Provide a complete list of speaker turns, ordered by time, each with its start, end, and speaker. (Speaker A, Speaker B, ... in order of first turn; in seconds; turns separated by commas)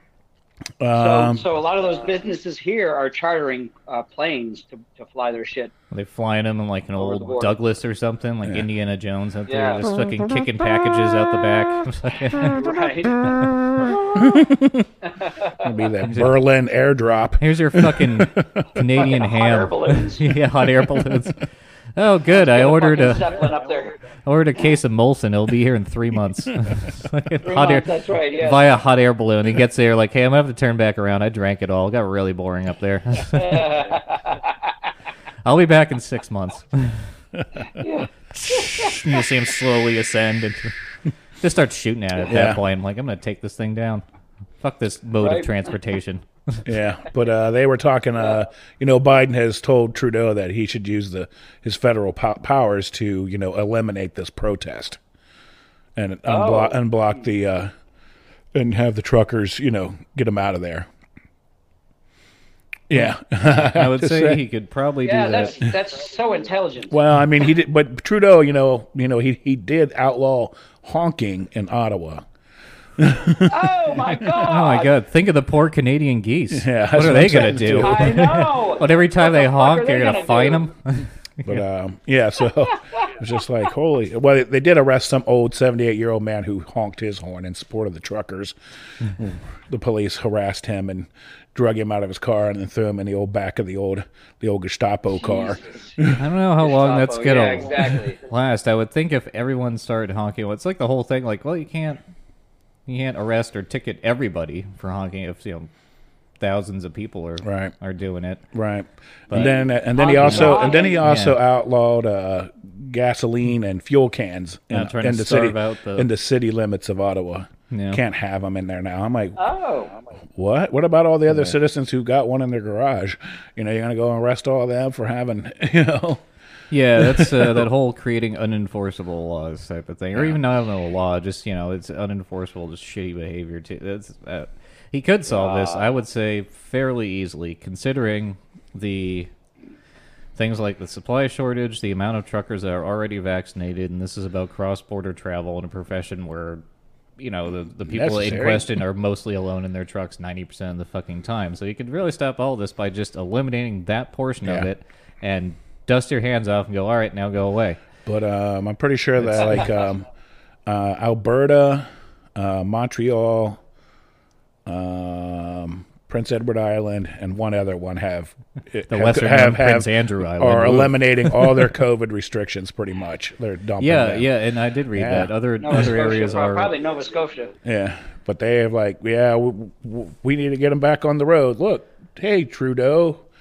Speaker A: 0.8-1.4, Speaker B: 0.9-5.7, Speaker C: 5.9-12.7, Speaker B: 7.0-7.5, Speaker B: 9.5-9.8, Speaker B: 12.4-14.2, Speaker A: 14.2-14.9, Speaker B: 15.1-15.7, Speaker A: 15.6-18.7, Speaker C: 16.1-16.4, Speaker C: 17.4-23.4, Speaker B: 19.0-20.3, Speaker B: 22.3-24.0, Speaker C: 24.2-33.8, Speaker B: 27.4-28.7, Speaker B: 33.3-34.5, Speaker C: 35.5-37.1, Speaker A: 37.4-37.7, Speaker B: 37.8-39.1, Speaker C: 38.4-40.7, Speaker C: 41.4-44.0, Speaker A: 42.3-42.6, Speaker C: 44.6-46.6, Speaker B: 45.2-45.5, Speaker A: 46.6-55.0, Speaker A: 56.0-57.7, Speaker B: 56.3-56.8, Speaker A: 58.5-60.9, Speaker A: 62.9-64.4, Speaker C: 63.0-65.6, Speaker B: 65.0-66.9, Speaker A: 66.9-72.2, Speaker A: 73.0-74.3, Speaker B: 73.5-74.9, Speaker C: 74.3-81.6, Speaker A: 76.5-78.2, Speaker B: 77.8-80.7, Speaker A: 81.4-88.5, Speaker A: 89.1-96.2, Speaker B: 95.1-96.0, Speaker C: 96.1-102.0, Speaker B: 96.6-98.2, Speaker C: 102.9-105.7, Speaker C: 106.4-108.4, Speaker A: 107.4-107.8, Speaker A: 108.5-119.4, Speaker B: 109.3-111.0, Speaker C: 110.2-111.4, Speaker C: 114.7-116.1, Speaker C: 117.7-118.0, Speaker B: 119.4-120.0, Speaker A: 120.4-126.2, Speaker C: 121.3-121.5, Speaker C: 126.7-139.3, Speaker A: 127.0-127.6, Speaker B: 135.3-135.9, Speaker C: 140.4-146.6, Speaker C: 147.2-157.8, Speaker A: 147.8-148.7, Speaker A: 154.4-154.7, Speaker A: 158.1-160.1, Speaker C: 159.2-159.6, Speaker A: 160.7-163.6, Speaker A: 164.7-174.3, Speaker C: 168.9-171.7, Speaker C: 173.8-176.7, Speaker A: 174.9-175.3, Speaker B: 175.6-177.5, Speaker A: 177.6-183.2